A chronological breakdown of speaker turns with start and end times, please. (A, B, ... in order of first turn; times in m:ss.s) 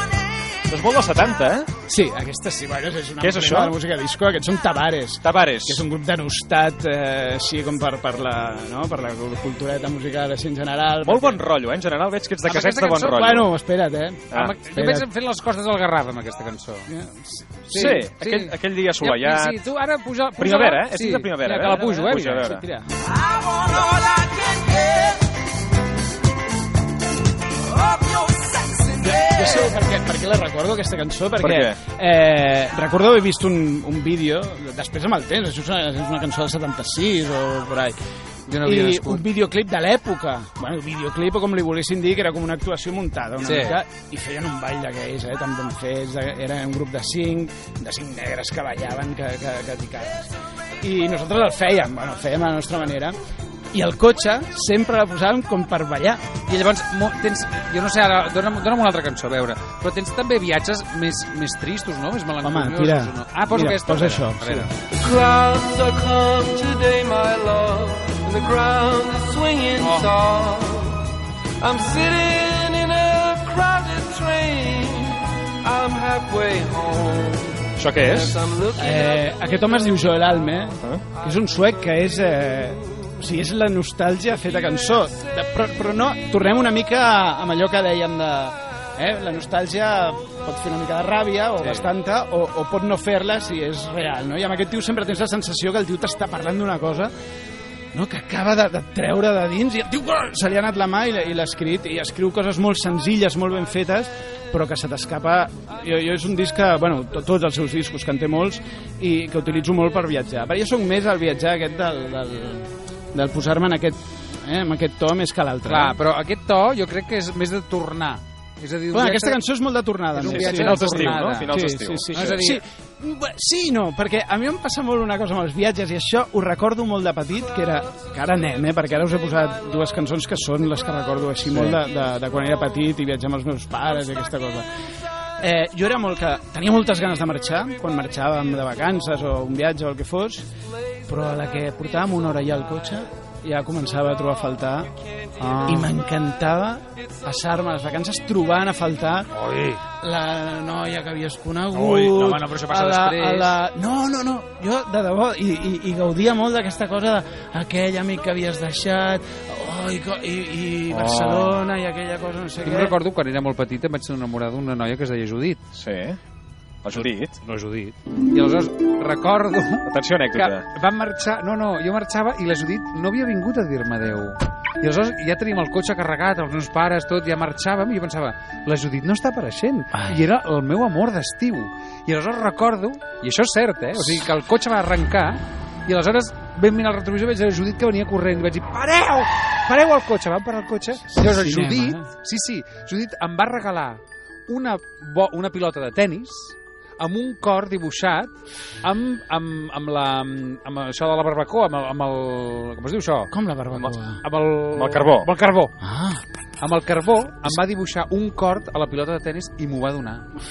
0:00.7-0:01.7 A
0:01.9-0:11.4 B
0:03.2-0:03.8 A
0:05.2-0:05.8 A
0:11.0-0:13.5 A
0:12.4-0:13.3 C
0:13.0-0:15.1 B
0:14.3-0:14.6 A
0:14.3-0:16.9 C
0:16.9-0:18.0 B
0:17.7-0:22.6 C
0:17.7-0:19.6 A
0:20.4-0:22.6 A
0:21.8-0:22.9 B
0:29.0-0:38.0 B
0:31.4-0:31.8 A
0:38.5-0:39.2 C
0:38.6-0:53.2 B
0:43.4-0:43.8 C
0:53.7-0:56.2 B
0:56.5-1:04.7 C
1:02.4-1:04.7 B
1:05.0-1:11.0 D
1:09.8-1:10.2 C
1:11.6-1:19.2 D
1:17.8-1:18.4 A
1:18.8-1:37.1 B
1:31.6-1:31.9 C
1:37.9-1:56.0 B
1:55.7-1:59.4 C
1:58.9-2:14.7 B
2:00.1-2:01.6 C
2:00.3-2:02.4 A
2:02.1-2:02.6 C
2:15.4-2:20.4 B
2:21.1-2:24.9 B
2:25.4-2:25.9 C
2:25.6-2:29.3 B
2:29.3-2:29.8 C
2:30.0-2:43.0 B
2:31.7-2:33.6 C
2:40.9-2:41.6 C
2:42.6-2:45.6 C
2:45.8-2:46.2 A
2:46.8-2:47.4 A
2:47.4-3:25.7 C
2:49.9-2:50.7 A
3:11.1-3:12.1 B
3:23.3-3:24.2 B
3:24.7-3:25.3 A
3:25.8-3:26.2 B
3:26.6-3:30.4 C